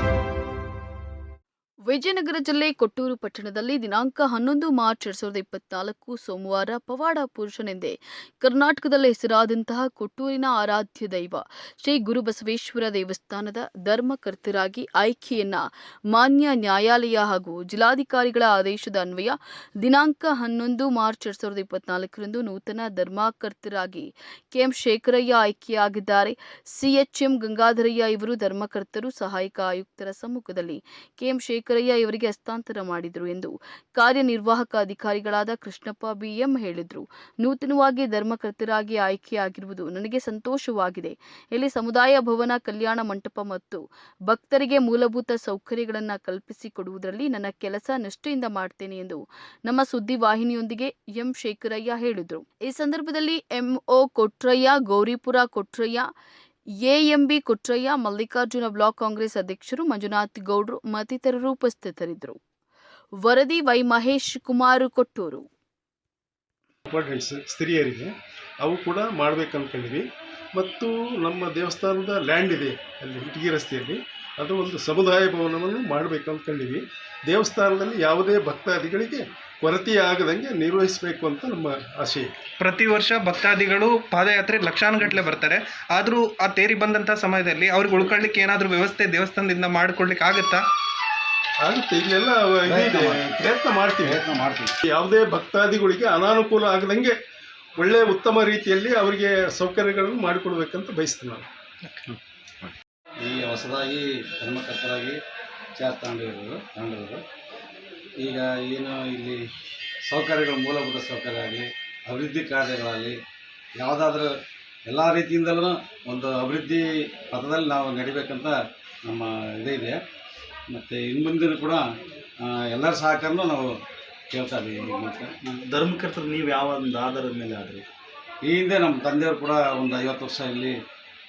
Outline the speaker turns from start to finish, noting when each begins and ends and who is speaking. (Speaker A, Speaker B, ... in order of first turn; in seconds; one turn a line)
Speaker A: 1.9-56.1
Speaker A: 56.8-62.4
Speaker A: 63.2-65.4
Speaker B: 66.9-68.1
Speaker B: 68.6-82.3
Speaker C: 82.6-90.6
Speaker B: 91.6-94.2
Speaker D: 92.6-93.4
Speaker D: 94.0-94.7
Speaker B: 94.8-97.2
Speaker B: 97.8-101.5
Speaker D: 103.2-105.2
Speaker D: 105.8-107.2
Speaker D: 108.2-109.5
Speaker D: 110.0-113.2
Speaker D: 113.8-114.3
Speaker D: 114.9-120.0
Speaker D: 120.7-121.8
Speaker D: 122.4-123.8
Speaker D: 124.3-125.5
Speaker E: 125.6-127.8
Speaker D: 128.4-130.8